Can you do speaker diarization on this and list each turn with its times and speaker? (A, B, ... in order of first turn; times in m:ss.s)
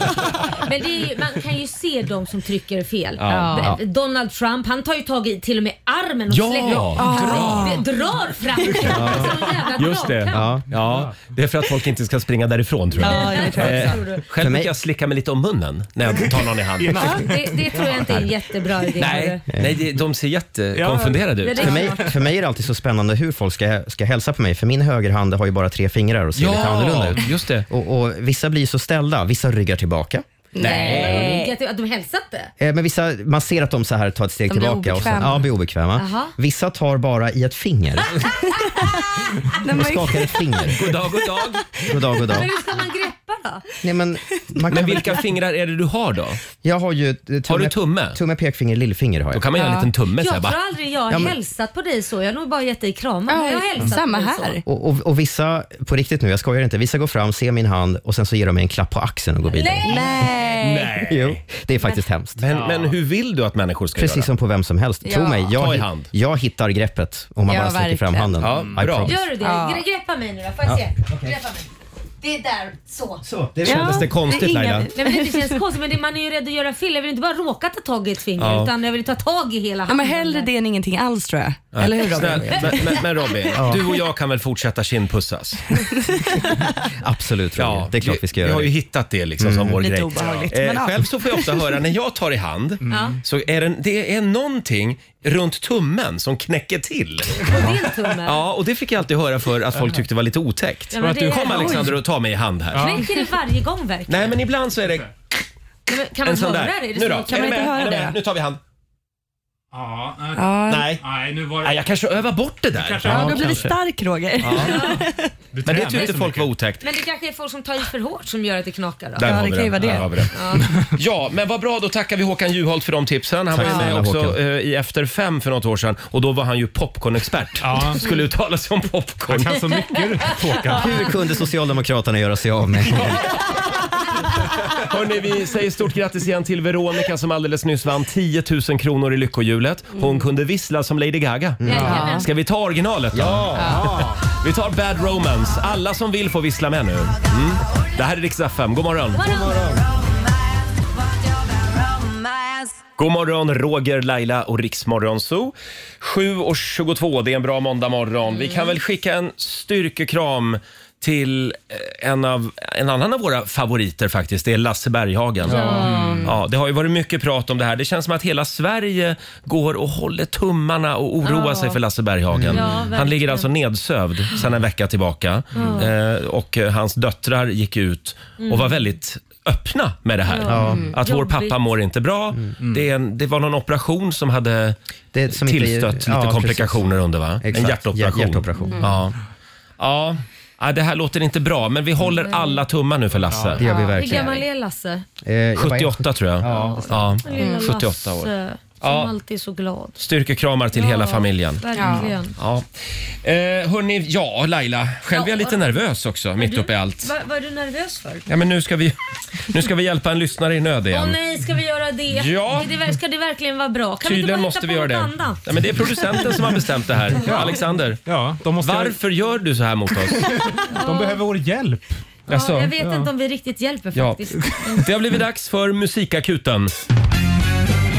0:00.6-0:10.5 A
0:03.2-0:03.6 B
0:03.3-0:03.7 C
0:06.3-0:07.8 B
0:07.0-0:07.8 C
0:08.9-0:09.4 D
0:09.8-0:17.1 B
0:10.3-0:10.6 D
0:10.9-0:11.2 E
0:13.0-0:14.0 C
0:13.0-0:14.2 A
0:14.4-0:14.7 D
0:16.8-0:18.2 E
0:17.1-0:19.4 A
0:19.0-0:21.8 B
0:20.7-0:22.0 E
0:21.4-0:22.0 A
0:21.6-0:30.2 D
0:26.4-0:27.6 B
0:30.5-0:31.5 C
0:30.6-0:32.5 A
0:30.6-0:31.3 B
0:32.6-0:38.2 D
0:34.5-0:35.5 C
0:36.0-0:36.3 A
0:39.6-0:40.7 C
0:39.7-0:40.8 D
0:40.7-0:41.6 B
0:41.8-0:42.5 D
0:42.2-0:43.6 A
0:43.8-0:45.3 D
0:44.7-0:46.4 B
0:46.6-0:49.6 D
0:47.5-0:48.2 B
0:49.3-0:50.6 B
0:49.5-0:49.9 C
0:50.2-0:54.6 A
0:51.1-0:51.4 D
0:53.3-0:54.6 C
0:54.6-1:00.2 D
0:59.5-1:00.2 A
0:59.8-1:00.9 C
1:00.6-1:01.4 B
1:01.0-1:02.4 D
1:02.4-1:04.3 B
1:02.5-1:02.9 E
1:03.9-1:09.2 D
1:05.0-1:05.5 C
1:05.6-1:06.1 B
1:07.4-1:08.5 C
1:08.4-1:09.1 B
1:09.0-1:11.7 A
1:09.4-1:09.8 C
1:11.1-1:11.4 D
1:12.2-1:13.2 A
1:13.2-1:14.8 D
1:13.6-1:15.6 C
1:13.6-1:14.9 B
1:14.9-1:20.5 A
1:18.4-1:18.7 B
1:19.9-1:23.6 C
1:21.7-1:25.8 B
1:23.5-1:23.8 D
1:27.0-1:28.7 D
1:27.6-1:37.5 B
1:29.4-1:29.8 D
1:29.8-1:31.8 C
1:30.2-1:30.5 E
1:32.8-1:33.2 E
1:32.9-1:33.2 A
1:37.4-1:38.4 A
1:38.2-1:43.0 B
1:40.9-1:41.9 A
1:41.3-1:41.8 E
1:42.7-1:43.1 E
1:42.8-1:44.4 A
1:44.1-1:45.1 B
1:45.9-1:47.6 A
1:46.2-1:48.6 B
1:47.2-1:48.2 C
1:49.7-1:51.8 E
1:50.4-1:50.9 C
1:50.7-1:51.0 B
1:51.6-1:53.7 B
1:52.7-1:53.7 E
1:53.0-1:55.3 C
1:53.1-1:53.6 D
1:54.4-1:54.9 B
1:54.6-1:55.0 A
1:55.5-1:56.5 E
1:55.6-1:56.8 B
1:56.8-1:59.3 A
1:59.2-2:00.3 B
1:59.2-2:00.1 C
1:59.8-2:00.0 E
2:00.3-2:00.7 A
2:00.6-2:00.9 E
2:00.8-2:09.8 B
2:03.5-2:04.4 D
2:07.6-2:08.0 E
2:09.3-2:11.1 E
2:10.7-2:13.2 D
2:14.7-2:21.6 B
2:21.6-2:22.1 D
2:21.6-2:22.3 A
2:21.8-2:22.2 C
2:22.2-2:29.2 B
2:23.1-2:24.0 D
2:23.7-2:24.2 E
2:29.1-2:29.6 A
2:29.2-2:29.8 D
2:33.0-2:45.7 B
2:45.5-2:46.3 C
2:45.5-2:45.9 A
2:45.6-2:45.8 D
2:45.8-2:46.2 E
2:46.2-3:04.8 B
2:51.2-2:51.8 A
2:52.3-2:52.7 D
2:52.5-2:53.5 A
2:55.5-2:55.8 A
2:55.6-2:55.8 C
2:58.4-2:58.7 A
3:00.3-3:01.6 A
3:00.5-3:00.9 D
3:00.5-3:00.9 C
3:02.6-3:02.9 E
3:05.1-3:08.9 D
3:05.3-3:09.1 B
3:09.8-3:13.6 B
3:12.2-3:12.6 A
3:13.3-3:13.6 E
3:13.6-3:14.4 D
3:13.7-3:14.0 C
3:13.9-3:15.0 A
3:15.2-3:17.1 D
3:15.6-3:19.1 B
3:16.4-3:20.0 A
3:17.4-3:17.7 C
3:20.0-3:21.6 B
3:20.7-3:22.3 A
3:21.7-3:22.1 C
3:22.4-3:22.6 B
3:23.2-3:27.1 B
3:25.1-3:25.7 A
3:26.4-3:28.3 A
3:28.3-3:31.2 B
3:30.9-3:35.4 A
3:32.1-3:32.7 B
3:34.0-3:38.0 B
3:37.2-3:39.0 E
3:38.6-3:40.3 B
3:40.2-3:42.0 E
3:40.7-3:41.2 A
3:42.3-3:42.7 B
3:42.3-3:44.8 A
3:42.8-3:43.1 E
3:43.9-3:46.7 B